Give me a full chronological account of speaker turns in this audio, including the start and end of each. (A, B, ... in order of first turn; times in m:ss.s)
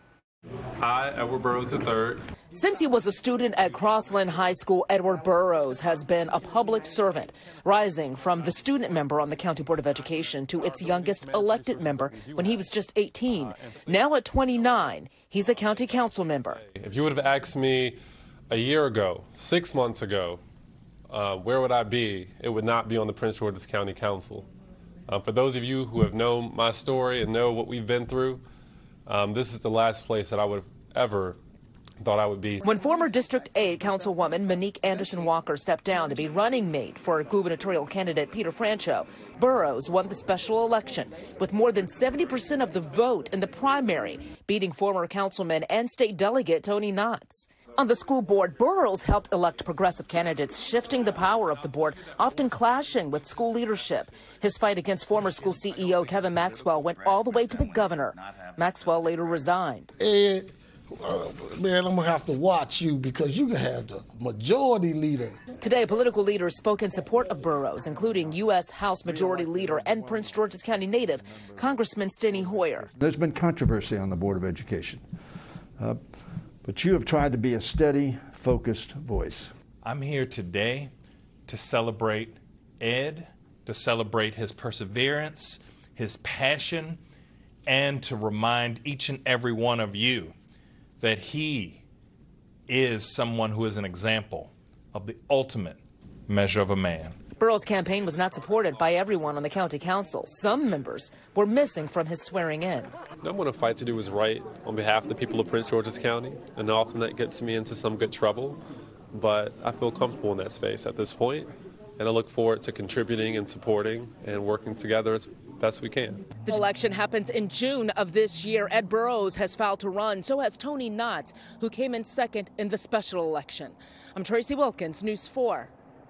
0:00.8-0:02.2 A
0:02.5-0:16.6 B
0:10.8-0:12.4 A
0:13.6-0:13.9 A
0:15.4-0:18.0 A
0:18.5-0:20.4 A
0:21.1-0:24.5 A
0:25.1-0:28.4 A
0:29.1-0:31.4 A
0:32.0-0:32.6 A
0:32.6-0:59.9 B
1:00.0-1:05.4 C
1:05.6-1:12.9 B
1:07.0-1:15.0 D
1:16.6-1:19.5 D
1:19.8-1:20.9 E
1:21.5-1:27.0 E
1:27.7-1:30.3 E
1:31.0-1:31.8 E
1:32.7-1:37.2 E
1:37.3-1:42.9 B
1:43.2-1:48.6 A
1:49.1-1:56.4 A
1:56.4-2:05.7 B